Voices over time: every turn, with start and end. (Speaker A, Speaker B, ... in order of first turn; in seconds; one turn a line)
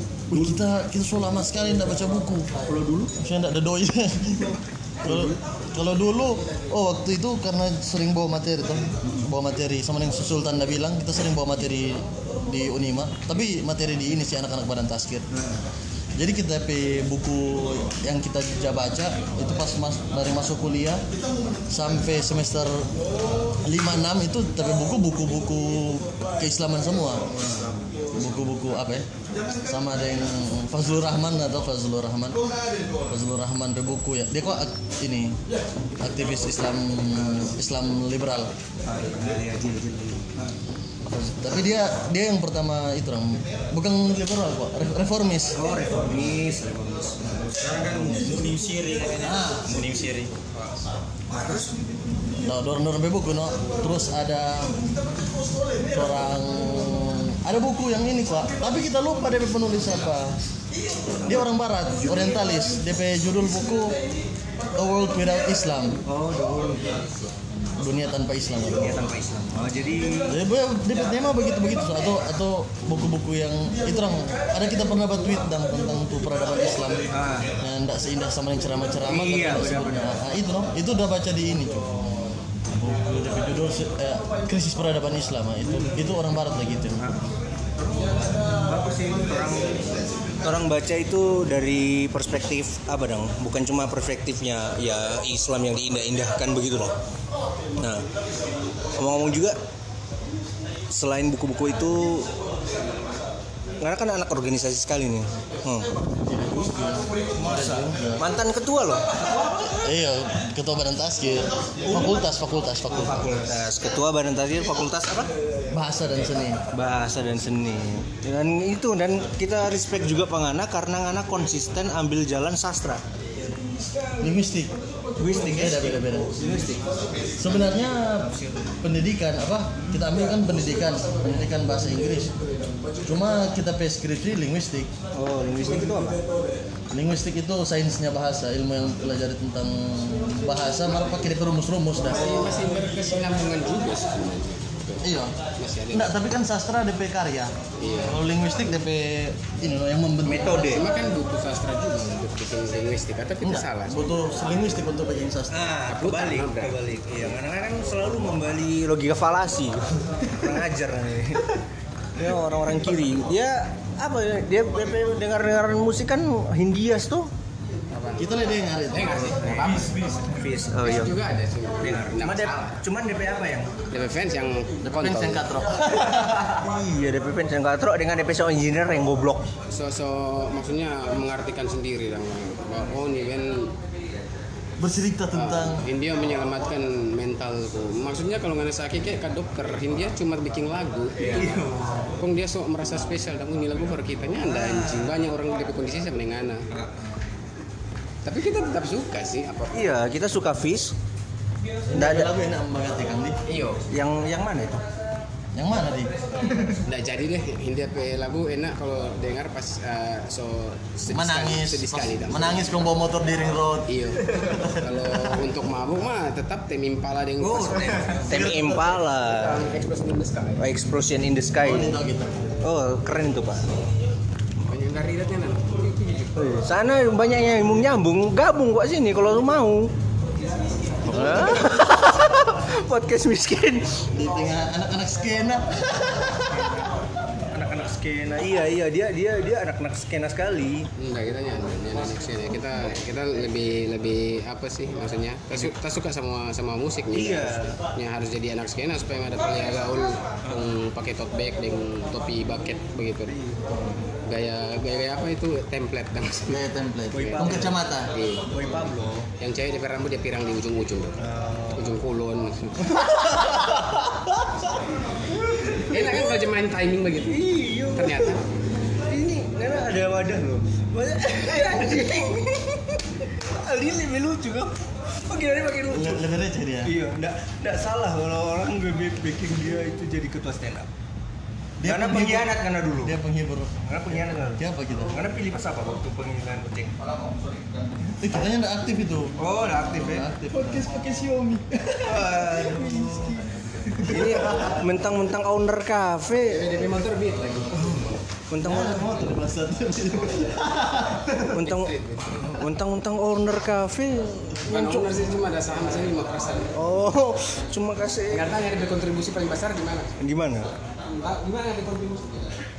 Speaker A: 0.3-0.6
Speaker B: 0.3-2.5
Speaker A: 2.7-3.1
Speaker B: 3.1-15.2
Speaker A: 5.0-5.4
Speaker A: 15.3-15.6
Speaker B: 16.2-27.3
Speaker A: 27.3-27.8
Speaker B: 28.1-29.1
Speaker B: 29.6-32.5
Speaker B: 33.0-35.4
Speaker B: 36.0-38.5
Speaker A: 38.8-40.5
Speaker B: 41.0-45.6
Speaker A: 45.5-48.3
Speaker C: 47.6-50.3
Speaker B: 49.2-49.6
Speaker A: 51.3-51.7
Speaker B: 52.4-54.8
Speaker B: 55.8-60.4
Speaker A: 60.9-62.5
Speaker B: 61.2-64.0
Speaker B: 64.7-66.0
Speaker A: 66.0-67.1
Speaker B: 67.8-68.9
Speaker A: 68.7-70.4
Speaker B: 70.3-87.0
Speaker A: 77.1-77.5
Speaker A: 79.1-80.1
Speaker A: 87.0-96.9
Speaker A: 97.8-98.1
Speaker A: 99.0-99.6
Speaker A: 100.9-102.3
Speaker A: 103.8-105.9
Speaker B: 106.2-108.2
Speaker A: 107.4-109.9
Speaker B: 109.8-113.4
Speaker A: 112.9-115.3
Speaker B: 115.7-116.6
Speaker A: 116.7-123.0
Speaker B: 124.2-124.8
Speaker A: 125.2-128.8
Speaker B: 125.3-126.4
Speaker B: 127.4-128.3
Speaker B: 128.8-132.3
Speaker B: 133.0-134.9
Speaker A: 135.1-136.2
Speaker B: 136.9-142.5
Speaker D: 142.0-146.1
Speaker B: 145.0-145.3
Speaker B: 145.9-150.8
Speaker D: 147.8-148.2
Speaker A: 150.2-150.9
Speaker D: 150.5-154.0
Speaker B: 153.4-155.7
Speaker A: 155.5-161.6
Speaker D: 155.9-156.8
Speaker A: 162.2-167.3
Speaker D: 167.9-170.0
Speaker B: 168.2-169.4
Speaker A: 169.3-171.2
Speaker C: 169.7-170.2
Speaker D: 170.8-172.8
Speaker A: 171.8-173.8
Speaker D: 173.9-175.5
Speaker B: 174.8-176.5
Speaker A: 175.8-179.5
Speaker D: 179.7-183.7
Speaker B: 184.8-185.8
Speaker D: 185.3-191.6
Speaker A: 191.2-192.1
Speaker D: 192.2-196.7
Speaker A: 194.4-195.2
Speaker A: 196.7-197.1
Speaker D: 198.2-199.9
Speaker A: 199.7-200.9
Speaker B: 201.9-203.4
Speaker A: 201.9-202.5
Speaker D: 203.5-203.8
Speaker A: 203.9-204.8
Speaker B: 205.5-206.1
Speaker D: 206.8-212.6
Speaker B: 211.1-214.8
Speaker D: 213.9-218.4
Speaker A: 217.4-219.7
Speaker B: 218.3-218.8
Speaker D: 219.2-220.7
Speaker A: 220.6-222.0
Speaker B: 221.6-222.5
Speaker A: 222.6-223.7
Speaker D: 224.6-226.4
Speaker A: 226.3-229.9
Speaker A: 231.1-234.0
Speaker B: 234.1-236.8
Speaker A: 236.5-236.9
Speaker A: 237.5-240.9
Speaker D: 241.0-253.4
Speaker A: 247.1-247.7
Speaker A: 253.3-254.1
Speaker D: 254.2-256.6
Speaker B: 256.5-258.1
Speaker A: 257.1-257.8
Speaker D: 257.1-257.6
Speaker D: 258.1-258.8
Speaker A: 258.5-259.3
Speaker D: 259.4-261.2
Speaker A: 261.2-262.0
Speaker D: 261.7-263.1
Speaker A: 262.9-264.7
Speaker A: 265.3-266.3
Speaker D: 265.7-268.4
Speaker A: 267.2-268.4
Speaker A: 269.1-276.3
Speaker B: 275.9-276.9
Speaker A: 276.8-280.9
Speaker B: 281.8-283.7
Speaker A: 281.8-283.1
Speaker A: 283.8-287.0
Speaker B: 284.6-285.2
Speaker B: 288.1-289.4
Speaker A: 289.4-290.3
Speaker B: 290.0-292.0
Speaker A: 291.9-296.8
Speaker B: 294.1-294.3
Speaker D: 296.4-298.0
Speaker A: 297.7-299.3
Speaker B: 298.6-301.5
Speaker A: 301.5-305.2
Speaker D: 301.6-302.6
Speaker D: 304.7-306.7
Speaker A: 306.7-308.5
Speaker D: 308.3-310.1
Speaker A: 310.2-310.7
Speaker D: 311.2-312.5